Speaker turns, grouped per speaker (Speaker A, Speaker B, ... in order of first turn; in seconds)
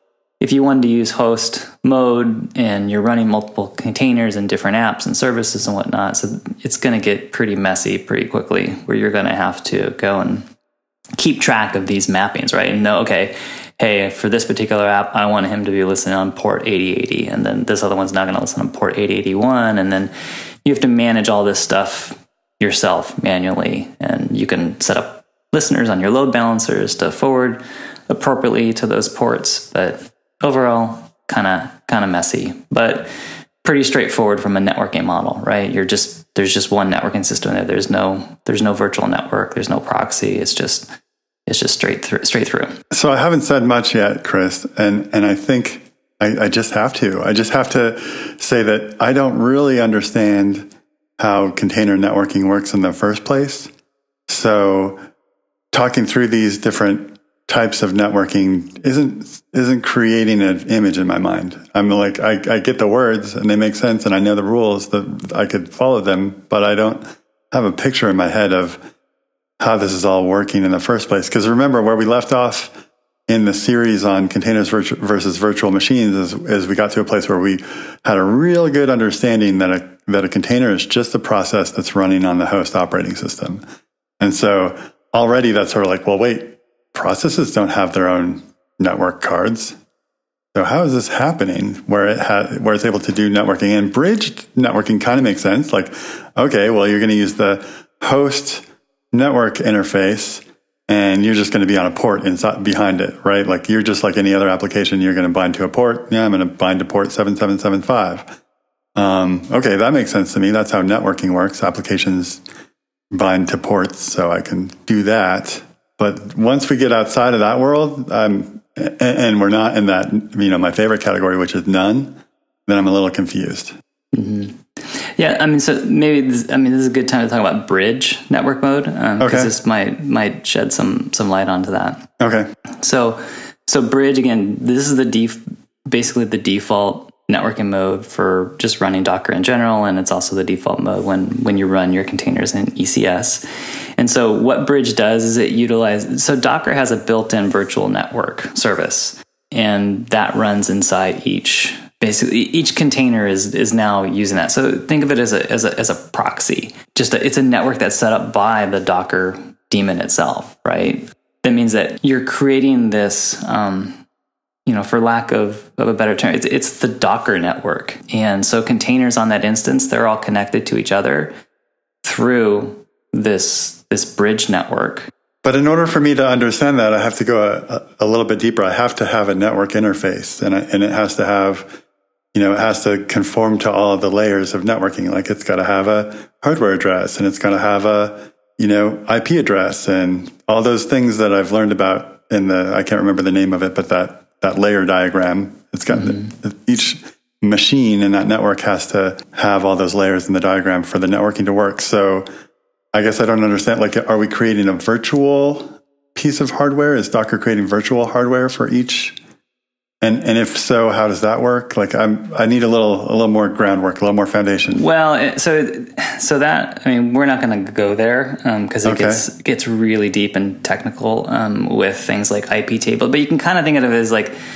Speaker A: 0.4-10.5, 11.2-20.1, 20.6-33.1, 33.6-40.9, 41.5-42.7, 124.1-132.1, 132.8-143.4, 144.0-164.0, 164.7-171.3, 172.0-175.1, 195.9-196.3, 214.7-224.3
Speaker B: 42.9-53.7, 54.3-55.0, 55.7-68.8, 69.6-72.7, 73.3-83.6, 84.2-89.8, 90.5-108.4, 108.9-112.4, 113.1-123.8, 129.2-129.5, 132.2-132.5, 175.4-181.8, 182.3-202.2, 202.9-209.2, 210.0-214.8, 218.8-219.2